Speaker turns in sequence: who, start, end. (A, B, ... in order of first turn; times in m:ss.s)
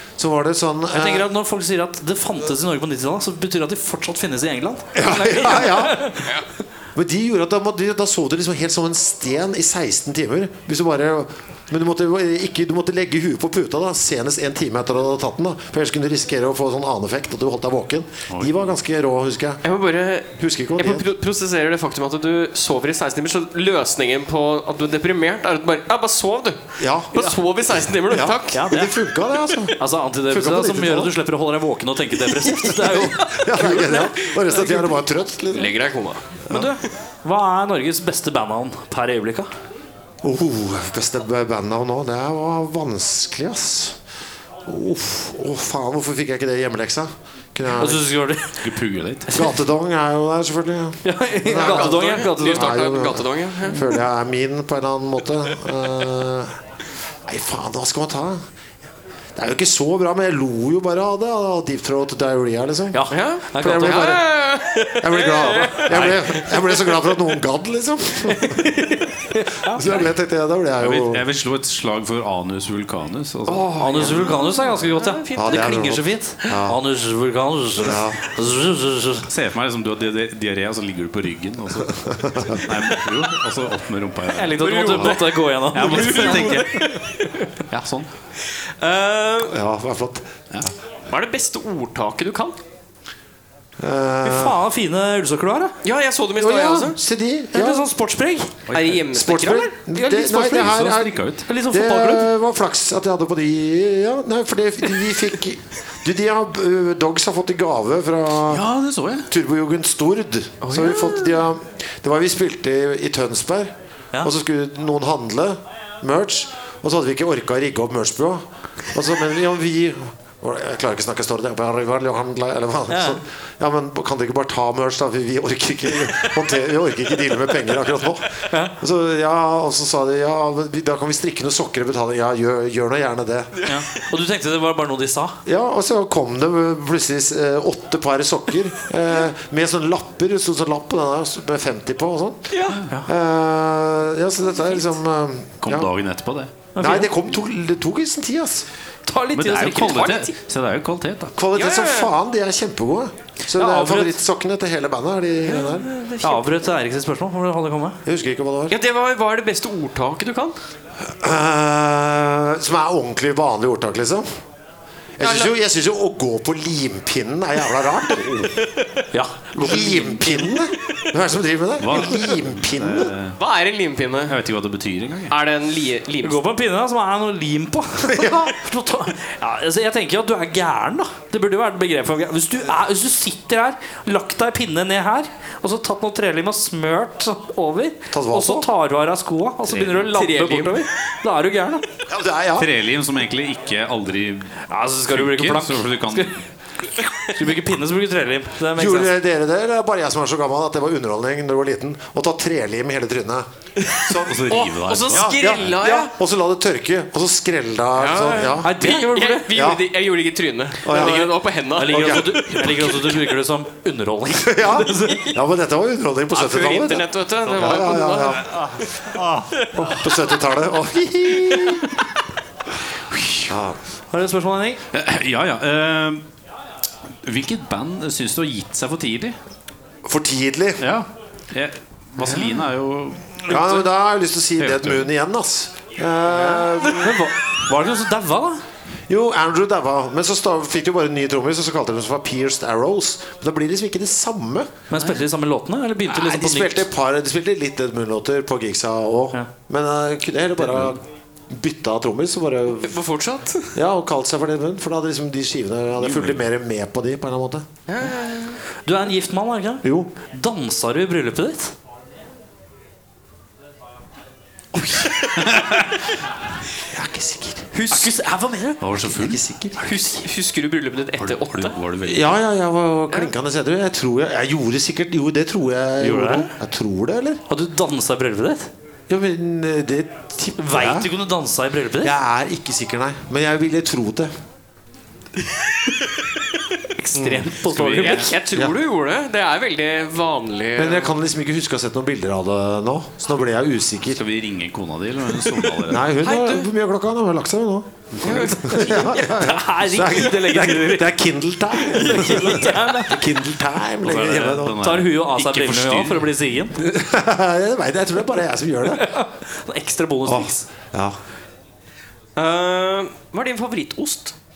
0:00.2-0:01.3 A
0:00.9-0:06.3 B
0:04.9-0:06.1 A
0:06.9-0:19.6 A
0:18.3-0:18.7 C
0:19.6-0:28.6 D
0:20.4-0:21.1 A
0:26.8-0:27.3 A
0:28.1-0:31.1 A
0:28.5-0:29.0 B
0:29.7-0:33.3 B
0:32.5-0:35.0 D
0:32.6-0:35.8 A
0:35.5-0:36.3 D
0:36.5-0:39.5 B
0:40.2-0:44.0 A
0:44.6-0:48.0 A
0:47.7-0:48.6 B
0:48.6-0:49.5 C
0:49.3-0:56.6 A
0:51.0-0:52.8 B
0:51.5-0:53.8 D
0:57.2-0:58.4 A
0:59.3-1:04.3 A
1:02.9-1:04.2 B
1:03.1-1:06.9 D
1:05.0-1:08.8 A
1:08.6-1:10.0 B
1:09.6-1:11.2 A
1:10.8-1:13.8 C
1:13.5-1:15.8 D
1:13.8-1:19.3 B
1:15.3-1:16.8 A
1:17.8-1:18.2 A
1:19.3-1:26.9 C
1:22.0-1:22.6 A
1:24.3-1:26.7 B
1:24.6-1:27.2 D
1:27.7-1:28.1 C
1:28.5-1:29.6 D
1:29.4-1:30.3 A
1:31.1-1:32.6 D
1:33.8-1:34.6 A
1:34.2-1:35.7 B
1:35.8-1:37.0 D
1:36.4-1:37.9 A
1:37.5-1:38.5 B
1:38.7-1:39.0 C
1:38.7-1:39.7 D
1:39.1-1:48.6 A
1:39.9-1:40.8 B
1:40.4-1:41.4 C
1:41.4-1:42.3 B
1:48.5-1:49.3 C
1:49.3-2:13.6 A
1:50.6-1:51.4 D
2:02.9-2:03.2 B
2:13.6-2:15.4 B
2:15.4-2:25.9 A
2:22.5-2:22.8 D
2:25.6-2:26.5 C
2:26.7-2:27.1 B
2:26.8-2:28.7 A
2:29.1-2:30.2 B
2:29.3-2:31.4 C
2:29.7-2:30.3 D
2:31.4-2:35.9 A
2:31.5-2:32.1 D
2:33.5-2:34.2 B
2:35.4-2:36.5 D
2:36.2-2:38.0 B
2:38.0-2:38.8 A
2:38.7-2:40.6 D
2:41.0-2:44.2 A
2:45.2-2:48.6 A
2:45.2-2:45.5 D
2:49.1-2:50.4 B
2:49.5-2:53.1 A
2:51.8-2:53.4 C
2:53.4-2:54.4 D
2:54.3-2:55.4 C
2:55.3-2:56.4 D
2:56.2-3:11.8 B
2:58.0-2:58.6 A
3:08.1-3:08.7 A
3:09.7-3:10.1 C
3:10.1-3:10.8 D
3:12.1-3:12.7 A
3:12.6-3:16.4 C
3:14.7-3:16.4 B
3:17.0-3:19.1 B
3:18.7-3:29.0 A
3:23.8-3:26.1 D
3:24.2-3:25.8 C
3:28.0-3:33.2 D
3:28.6-3:29.5 B
3:29.5-3:29.8 A
3:30.8-3:32.9 A
3:30.9-3:35.4 B
3:34.4-3:38.5 A
3:36.3-3:38.9 D
3:39.6-3:39.9 D
3:39.8-3:41.9 A
3:43.1-3:43.5 C
3:43.5-3:43.8 A
3:44.1-3:44.8 B
3:44.9-3:46.2 C
3:47.2-3:49.4 C
3:50.0-3:50.9 A
3:50.8-3:53.8 C
3:53.4-3:57.2 A
3:54.6-3:55.1 C
3:57.0-3:58.6 B
3:59.1-4:04.7 A
4:04.9-4:06.8 B
4:06.0-4:13.0 A
4:12.8-4:13.7 D
4:13.7-4:17.6 A
4:16.0-4:16.4 C
4:17.9-4:18.6 D
4:18.8-4:21.7 B
4:19.8-4:20.1 A
4:25.4-4:25.8 C
4:26.8-4:27.8 A
4:27.7-4:28.8 B
4:28.8-4:29.4 C
4:29.0-4:29.9 A
4:29.8-4:31.8 D
4:31.2-4:32.4 C
4:32.0-4:37.4 A
4:36.0-4:36.5 B
4:37.5-4:38.7 B
4:39.1-4:41.1 A
4:40.6-4:42.1 B
4:42.0-4:44.3 A
4:47.0-4:48.3 B
4:47.2-4:47.5 A
4:47.6-4:48.3 C
4:48.0-4:51.2 D
4:50.8-4:54.2 A
4:54.1-4:56.1 C
4:55.8-5:04.8 A
4:56.2-4:56.7 D
4:58.1-4:58.5 C
4:58.2-4:59.3 D
4:58.6-5:01.1 B
5:01.7-5:03.2 B
5:02.2-5:02.6 D
5:04.0-5:06.3 C
5:04.7-5:06.8 B
5:06.8-5:09.1 A
5:08.9-5:10.7 B
5:10.2-5:11.2 A
5:12.4-5:14.3 D